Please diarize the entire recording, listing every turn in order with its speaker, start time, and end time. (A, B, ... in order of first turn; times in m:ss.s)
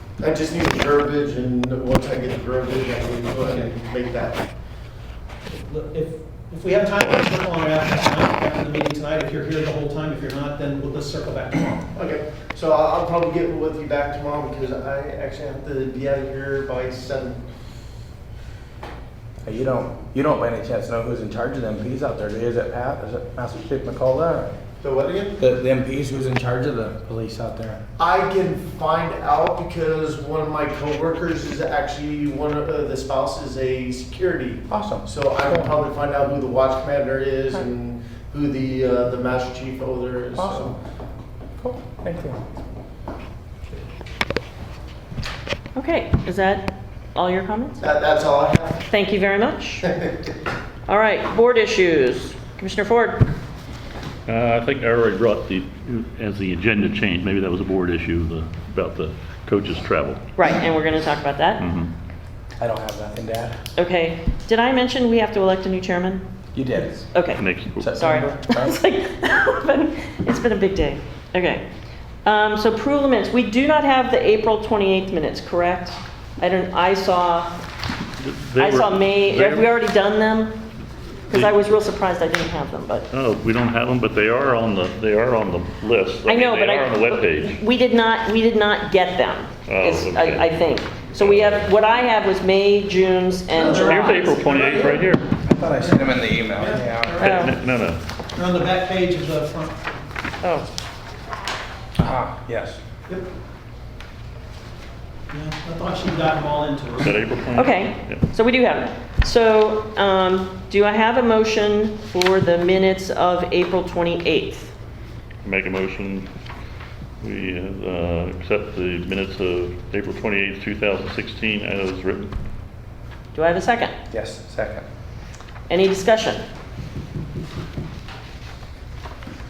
0:00.2-0:04.4 A
0:03.4-0:03.7 B
0:05.5-0:11.9 B
0:11.9-0:17.4 A
0:19.4-0:24.5 C
0:24.8-0:25.4 A
0:25.4-0:27.8 C
0:28.0-0:40.8 A
0:34.7-0:35.7 C
0:40.4-0:40.7 C
0:41.6-0:42.4 C
0:45.7-0:47.8 D
0:47.8-0:48.8 A
0:48.9-0:49.8 D
0:50.9-0:53.3 D
0:54.2-1:00.2 E
1:00.4-1:01.6 D
1:01.6-1:01.9 E
1:02.6-1:03.6 C
1:03.7-1:06.2 D
1:06.5-1:07.1 C
1:07.1-1:11.6 D
1:07.4-1:07.9 E
1:07.8-1:08.7 C
1:12.2-1:17.6 D
1:18.2-1:19.7 E
1:18.6-1:20.6 D
1:21.3-1:23.1 D
1:23.1-1:27.6 E
1:26.2-1:34.5 D
1:29.7-1:30.5 E
1:33.5-1:37.5 B
1:33.8-1:35.3 E
1:35.4-1:37.2 C
1:37.2-1:38.0 E
1:37.2-1:37.5 D
1:38.3-1:39.9 B
1:40.4-1:40.7 D
1:42.0-1:42.8 C
1:45.3-1:47.2 B
1:47.0-1:48.2 E
1:47.5-1:54.7 D
1:55.4-1:56.3 E
1:57.2-2:02.3 E
2:03.3-2:03.9 D
2:04.1-2:04.9 C
2:05.7-2:06.4 D